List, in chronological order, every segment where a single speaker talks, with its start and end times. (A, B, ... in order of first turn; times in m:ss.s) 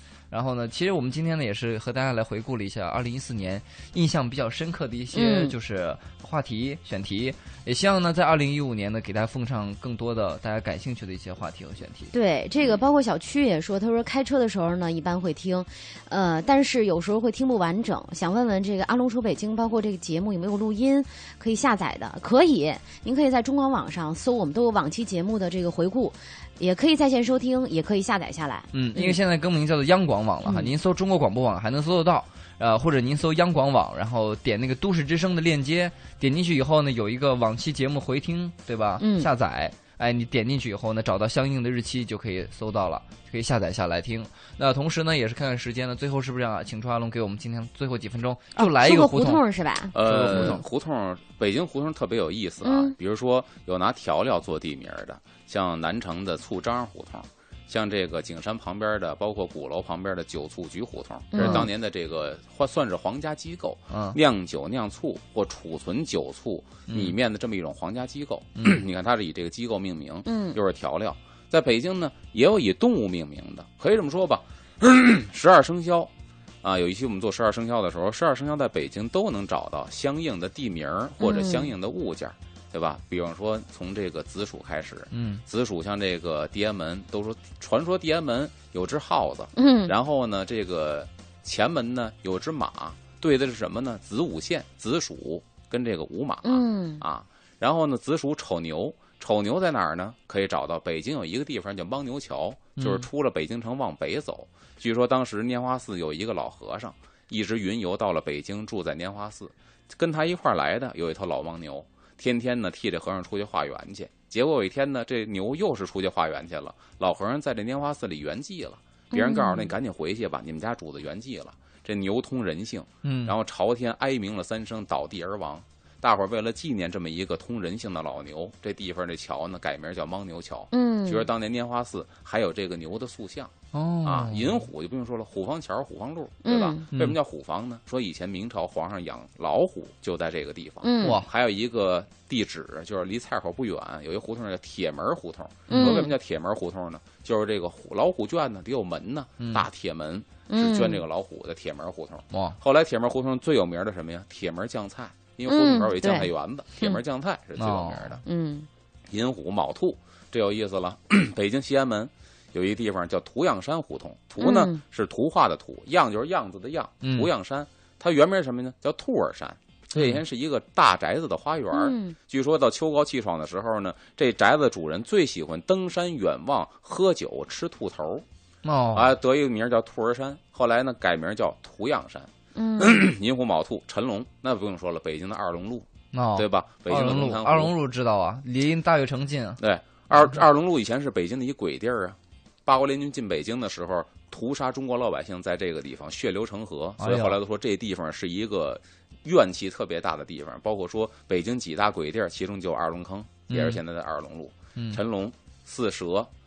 0:00.3-0:12.1 A
0:05.1-0:05.6 B
0:12.1-0:29.2 B
0:28.7-0:49.4 A
0:30.4-0:30.7 B
0:39.0-0:39.3 B
0:48.6-0:50.6 B
0:49.9-0:50.6 A
0:49.9-1:16.1 C
0:52.6-0:52.9 B
1:01.3-1:01.7 B
1:01.4-1:01.7 A
1:03.9-1:04.2 A
1:06.9-1:07.2 A
1:08.6-1:08.8 A
1:10.2-1:10.6 B
1:16.6-2:38.2 C
1:21.2-1:21.7 B
1:25.1-1:25.4 A
1:29.6-1:29.9 B
1:36.4-1:37.0 B
1:42.8-1:43.1 A
1:59.1-1:59.7 B
2:03.0-2:03.4 A
2:10.7-2:11.3 B
2:13.7-2:14.6 A
2:16.4-2:16.9 B
2:20.8-2:21.2 B
2:21.0-2:21.3 A
2:25.7-2:26.1 A
2:25.7-2:26.1 B
2:29.4-2:29.7 A
2:30.5-2:31.0 B
2:32.3-2:32.6 A
2:35.5-2:37.0 B
2:37.6-2:38.2 A
2:38.2-2:38.7 B
2:39.1-2:58.2 C
2:44.4-2:44.8 B
2:47.0-2:47.3 A
2:50.0-2:50.2 A
2:51.7-2:52.2 B
2:58.6-2:59.1 A
2:58.9-3:07.7 C
3:02.6-3:03.0 B
3:06.1-3:09.6 A
3:09.6-3:26.3 C
3:17.0-3:17.4 A
3:23.5-3:23.8 A
3:24.8-3:25.0 A